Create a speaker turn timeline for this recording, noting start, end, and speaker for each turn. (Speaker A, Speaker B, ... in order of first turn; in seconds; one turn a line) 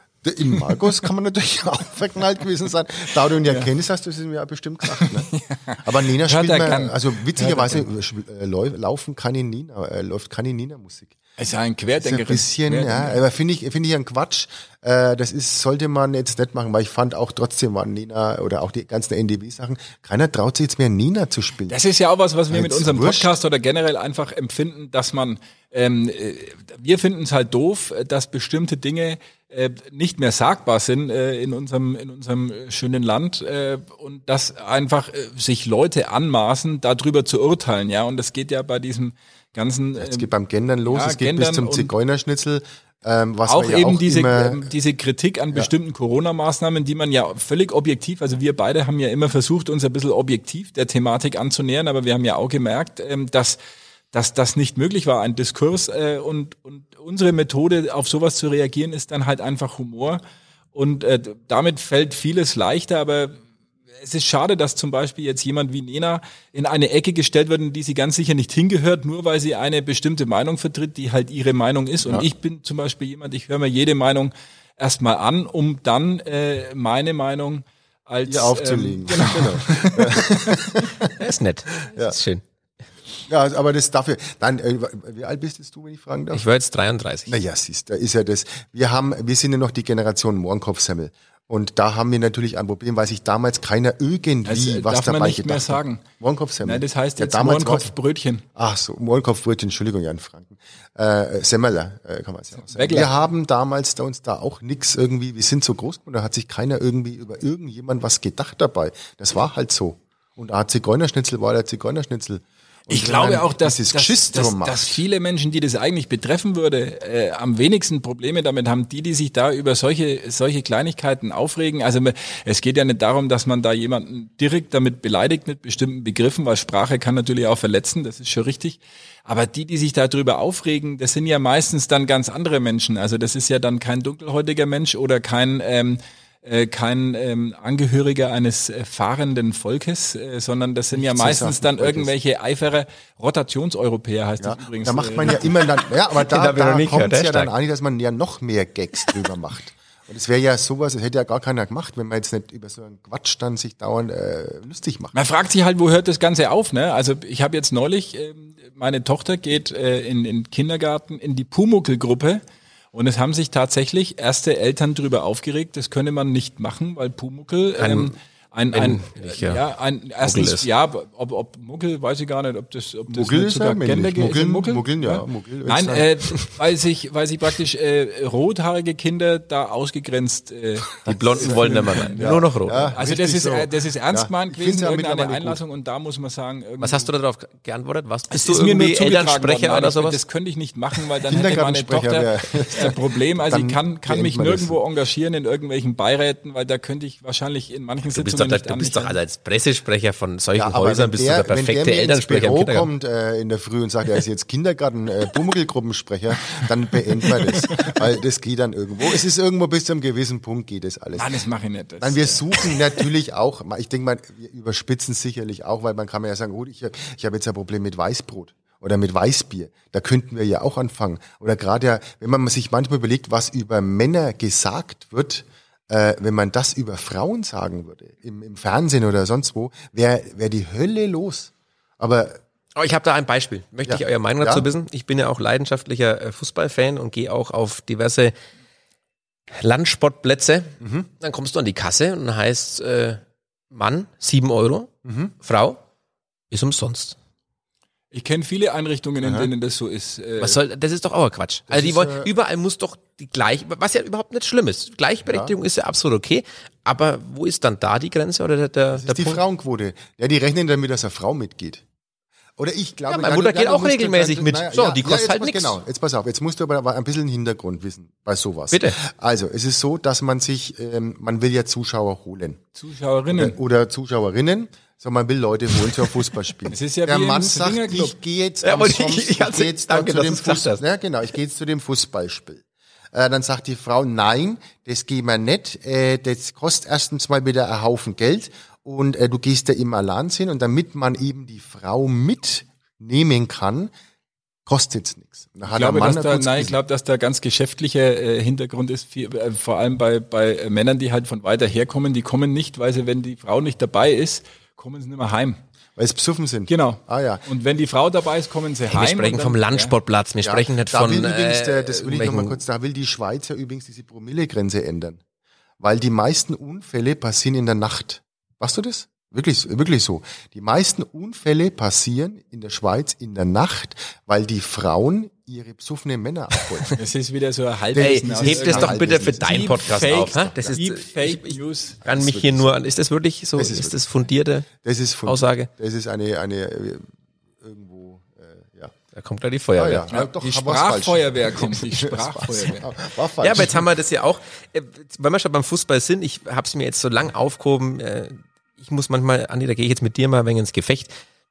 Speaker A: 0.2-5.3
Speaker B: 0.5-0.9
Speaker B: 4.8-7.8
Speaker A: 5.8-11.2
Speaker B: 11.4-13.2
Speaker A: 12.0-21.8
Speaker B: 21.7-40.3
Speaker A: 22.5-23.4
Speaker A: 40.0-44.7
Speaker B: 40.9-41.9
Speaker B: 43.5-53.6
Speaker B: 54.1-60.2
Speaker B: 60.7-63.4
Speaker B: 64.0-80.7
Speaker A: 78.2-81.2
Speaker C: 81.2-82.4
Speaker A: 83.3-86.4
Speaker C: 86.3-87.4
Speaker A: 87.3-97.9
Speaker B: 94.4-96.0
Speaker B: 96.6-98.4
Speaker A: 98.5-115.0
Speaker B: 102.7-103.1
Speaker B: 112.9-145.5
Speaker A: 140.9-142.1
Speaker A: 144.4-155.1
Speaker C: 146.1-147.5
Speaker B: 155.1-162.4
Speaker B: 162.9-187.1
Speaker C: 167.8-168.1
Speaker C: 168.7-169.6
Speaker C: 170.2-170.7
Speaker A: 173.1-176.1
Speaker C: 181.0-182.9
Speaker A: 181.1-185.6
Speaker C: 186.8-190.2
Speaker B: 188.3-199.2
Speaker A: 191.3-194.8
Speaker C: 198.1-202.9
Speaker A: 200.5-211.3
Speaker B: 207.2-208.0
Speaker B: 211.2-212.8
Speaker A: 212.0-232.4
Speaker C: 232.7-238.3
Speaker A: 233.8-234.7
Speaker C: 239.5-245.8
Speaker A: 240.8-241.1
Speaker A: 245.0-245.3
Speaker C: 246.5-247.2
Speaker B: 248.1-250.6
Speaker A: 249.2-249.5
Speaker C: 250.4-259.4
Speaker A: 251.7-252.3
Speaker A: 255.3-255.6
Speaker A: 258.9-261.8
Speaker A: 262.6-272.6
Speaker C: 263.1-265.8
Speaker C: 268.7-269.0
Speaker B: 272.8-273.6
Speaker A: 273.3-293.9
Speaker B: 276.7-278.1
Speaker C: 278.6-280.8
Speaker A: 294.6-296.8
Speaker B: 295.7-305.6
Speaker A: 305.9-307.4
Speaker B: 306.7-309.9
Speaker C: 308.9-312.6
Speaker A: 310.4-315.2
Speaker A: 315.8-327.0
Speaker B: 326.9-332.0
Speaker A: 327.9-330.7
Speaker C: 327.9-334.7
Speaker A: 332.0-332.8
Speaker A: 333.6-334.0
Speaker A: 334.7-338.9
Speaker C: 335.2-335.7
Speaker C: 339.1-340.1
Speaker A: 339.8-343.9
Speaker B: 340.1-342.9
Speaker C: 343.4-351.1